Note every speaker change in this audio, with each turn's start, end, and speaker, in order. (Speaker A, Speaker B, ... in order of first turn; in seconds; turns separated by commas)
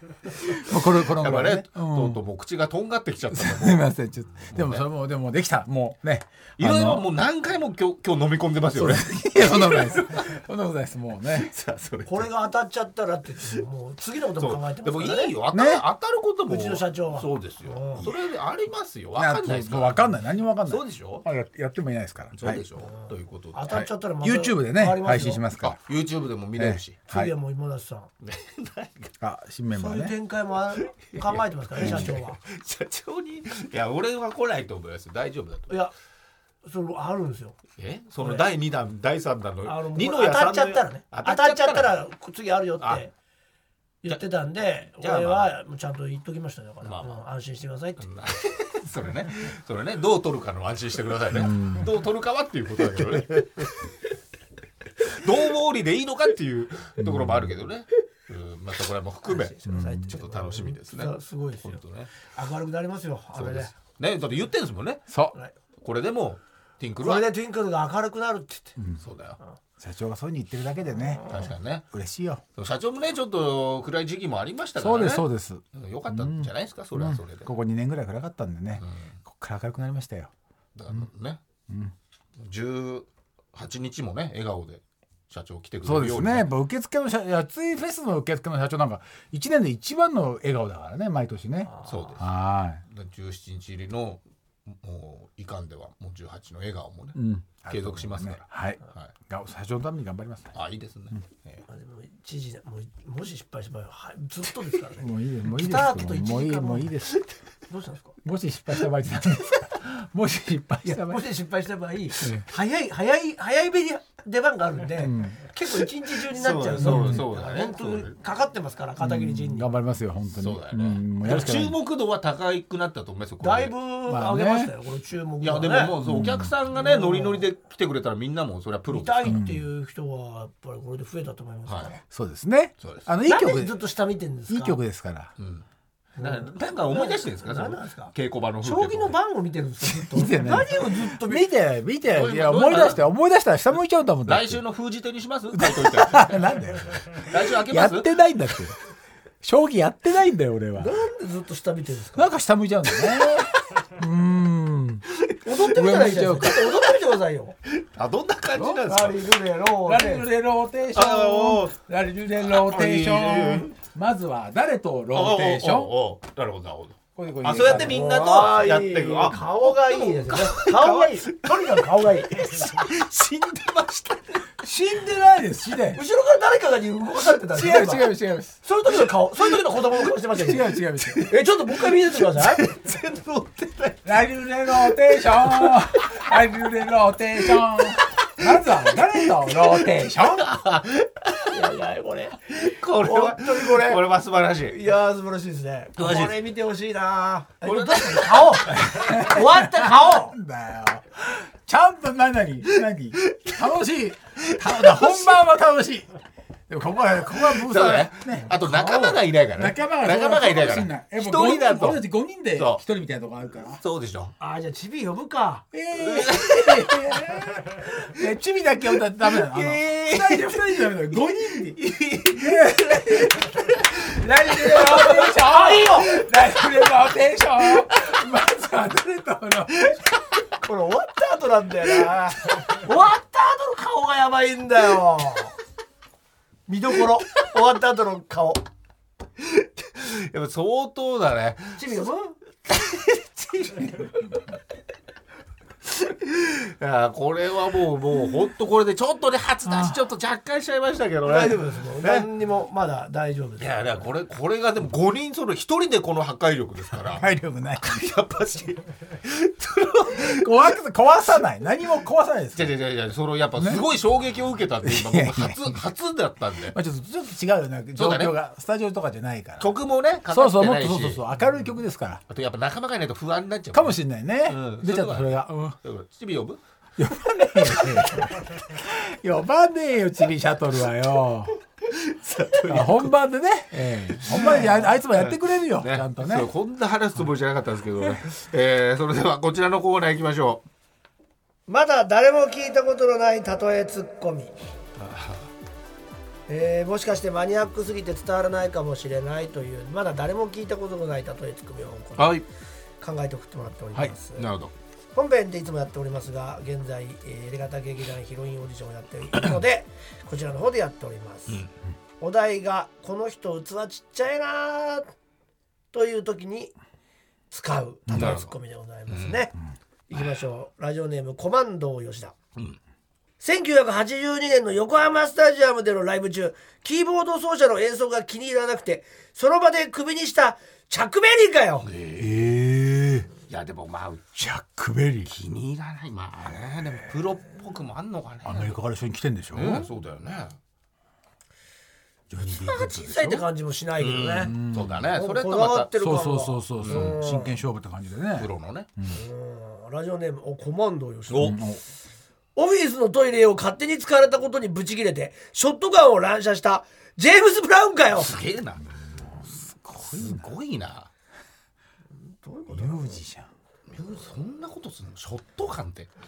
Speaker A: 0.3-2.2, Speaker B: 1.0-3.9, Speaker A: 3.3-7.1, Speaker B: 4.4-4.8, Speaker B: 6.6-10.3, Speaker A: 8.8-11.5, Speaker B: 11.3-12.3, Speaker C: 12.1-15.4, Speaker B: 14.4-21.2, Speaker A: 15.5-15.8, Speaker C: 16.5-18.1, Speaker A: 19.1-22.6, Speaker B: 22.3-23.8, Speaker C: 22.8-25.4, Speaker A: 23.7-25.8, Speaker B: 25.6-27.0, Speaker A: 26.6-27.3, Speaker C: 27.1-28.1, Speaker B: 28.2-29.1, Speaker A: 29.2-30.1, Speaker C: 29.8-32.4, Speaker B: 31.1-35.8, Speaker A: 31.8-32.1, Speaker C: 36.6-37.6, Speaker B: 37.8-42.0, Speaker C: 38.2-38.5, Speaker C: 39.6-43.1, Speaker C: 44.0-48.0, Speaker B: 45.0-45.5, Speaker B: 46.8-47.2, Speaker B: 48.0-53.8, Speaker A: 51.3-51.9, Speaker B: 55.0-62.1, Speaker A: 57.0-57.6, Speaker C: 59.2-63.7, Speaker A: 59.7-60.1, Speaker B: 63.4-65.1, Speaker A: 65.1-65.3, Speaker B: 65.8-67.3, Speaker C: 67.0-68.8, Speaker A: 68.8-69.0, Speaker B: 69.0-69.4, Speaker A: 69.8-71.3, Speaker C: 71.0-71.5, Speaker B: 71.3-71.9, Speaker A: 71.9-72.4, Speaker B: 72.6-77.5, Speaker A: 74.8-80.3, Speaker B: 78.8-79.1, Speaker B: 80.8-81.4, Speaker A: 81.7-81.9, Speaker B: 82.4-86.5, Speaker A: 85.8-92.8, Speaker C: 91.7-92.2, Speaker B: 91.8-92.3, Speaker B: 92.8-99.1, Speaker A: 97.1-100.5, Speaker B: 100.5-101.6, Speaker C: 101.7-107.0, Speaker A: 105.0-107.2, Speaker C: 107.7-108.1, Speaker A: 108.2-111.3, Speaker C: 110.8-119.7, Speaker A: 112.2-112.5, Speaker A: 115.0-115.4, Speaker B: 116.3-118.2, Speaker A: 116.8-117.2, Speaker A: 119.0-121.8, Speaker B: 120.4-123.7, Speaker C: 123.4-126.0, Speaker A: 124.1-124.7, Speaker B: 125.4-129.4, Speaker A: 126.0-126.5, Speaker C: 126.8-127.5, Speaker C: 128.9-132.0, Speaker A: 129.3-129.6, Speaker B: 131.7-131.9, Speaker A: 132.1-133.8, Speaker B: 132.8-133.1, Speaker C: 133.3-134.8, Speaker A: 134.5-135.3, Speaker B: 135.4-135.6, Speaker C: 136.2-141.5, Speaker B: 136.2-139.1, Speaker A: 139.9-144.6, Speaker B: 142.1-143.0, Speaker B: 144.3-146.4, Speaker A: 145.5-148.8, Speaker B: 147.1-148.2, Speaker A: 149.4-150.9, Speaker C: 150.8-152.3, Speaker A: 152.1-155.1, Speaker C: 155.4-157.6, Speaker A: 155.6-156.7, Speaker B: 157.7-159.3, Speaker C: 158.8-160.3, Speaker A: 159.8-165.9, Speaker B: 160.9-161.8, Speaker B: 162.4-163.7, Speaker B: 165.1-174.6, Speaker A: 167.2-168.0, Speaker C: 167.6-172.7, Speaker A: 174.6-176.0, Speaker C: 175.9-182.7, Speaker A: 177.5-178.6, Speaker B: 179.4-179.9, Speaker A: 180.4-181.3, Speaker B: 181.0-184.2, Speaker A: 184.1-190.5, Speaker B: 184.7-186.3, Speaker B: 187.6-191.6, Speaker C: 191.5-194.0, Speaker B: 192.5-194.8, Speaker C: 194.6-200.4, Speaker B: 196.0-196.4, Speaker B: 197.6-198.8, Speaker A: 198.7-206.1, Speaker B: 203.2-203.6, Speaker B: 204.5-205.3, Speaker A: 206.7-213.8, Speaker B: 207.4-212.8, Speaker B: 213.8-214.3, Speaker C: 214.4-215.7, Speaker A: 215.7-230.1, Speaker B: 215.9-217.5, Speaker B: 219.2-220.9, Speaker B: 221.5-225.2, Speaker C: 224.9-226.1, Speaker C: 230.6-235.6, Speaker C: 236.7-238.6, Speaker B: 239.4-242.0, Speaker C: 241.8-242.4, Speaker B: 242.7-244.4, Speaker B: 245.9-252.3, Speaker A: 249.7-250.0, Speaker C: 251.2-253.8, Speaker B: 253.6-257.3, Speaker A: 257.1-258.1, Speaker B: 257.8-260.7, Speaker A: 260.2-262.7, Speaker B: 262.6-266.8, Speaker A: 263.6-263.9, Speaker A: 264.8-265.8, Speaker A: 266.7-269.7, Speaker B: 267.9-268.4, Speaker B: 269.6-271.2, Speaker A: 270.3-272.2, Speaker B: 272.3-276.6, Speaker A: 273.7-275.8, Speaker A: 277.0-281.5, Speaker B: 277.7-278.2, Speaker B: 281.9-283.1, Speaker A: 282.7-286.5, Speaker B: 284.1-290.6, Speaker C: 291.7-294.5, Speaker B: 295.0-295.5, Speaker C: 296.5-302.4, Speaker B: 302.1-302.4, Speaker C: 303.0-304.5, Speaker B: 304.4-304.7, Speaker C: 305.1-311.6, Speaker C: 312.2-315.1, Speaker C: 315.9-316.7, Speaker C: 317.5-319.5, Speaker A: 318.1-318.4, Speaker B: 318.1-318.5, Speaker B: 319.1-319.4, Speaker C: 320.1-322.4, Speaker C: 323.4-331.9, Speaker B: 331.8-332.4, Speaker A: 332.1-333.3, Speaker B: 333.5-334.4, Speaker A: 334.4-335.4, Speaker B: 335.3-338.8, Speaker A: 338.4-339.9, Speaker B: 339.5-340.6, Speaker A: 342.3-343.4, Speaker C: 342.4-344.5, Speaker B: 344.0-345.9, Speaker A: 344.4-345.1, Speaker C: 345.1-347.5, Speaker A: 345.9-349.2, Speaker B: 346.8-347.2, Speaker B: 348.4-348.9, Speaker C: 349.1-351.6, Speaker B: 351.3-351.6, Speaker A: 351.4-351.8, Speaker C: 352.6-358.4, Speaker B: 358.2-358.9, Speaker A: 359.1-360.5, Speaker B: 360.0-361.1, Speaker C: 362.2-363.2, Speaker A: 362.7-363.5, Speaker B: 363.9-366.1